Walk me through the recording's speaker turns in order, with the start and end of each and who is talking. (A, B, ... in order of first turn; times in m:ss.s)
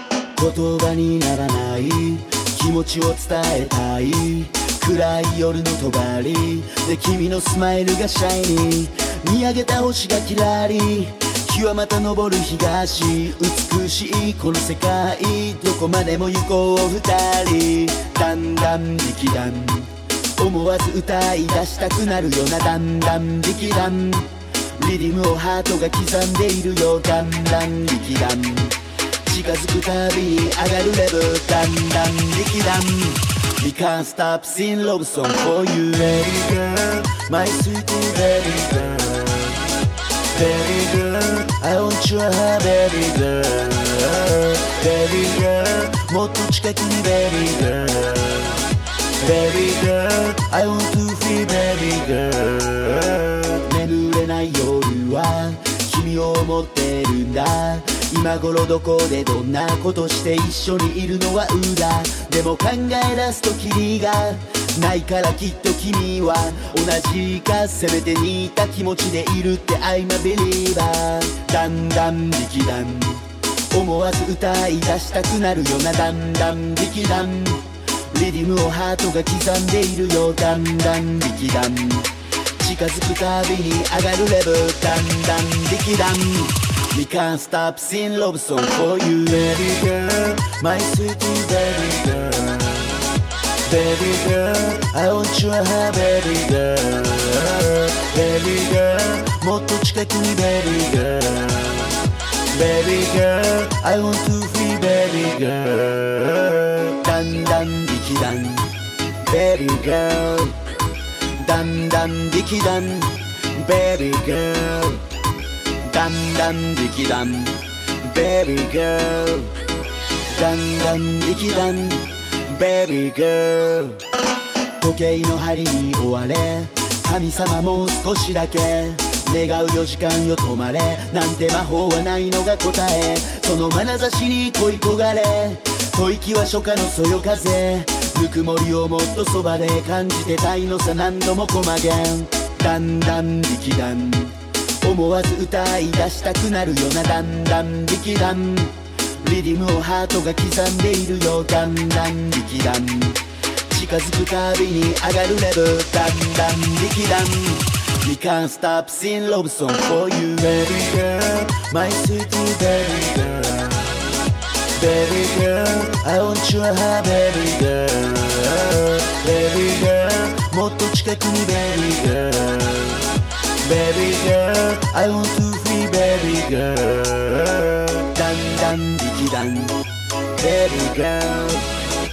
0:00.4-0:39.7 A
0:40.3-0:48.7 A
0:49.2-1:33.0 A
1:33.6-1:50.6 A
1:51.3-1:55.0 A
1:55.8-1:59.6 A
2:00.3-2:04.0 A
2:04.8-2:44.0 A
2:44.8-2:59.8 A
3:00.4-3:01.9 A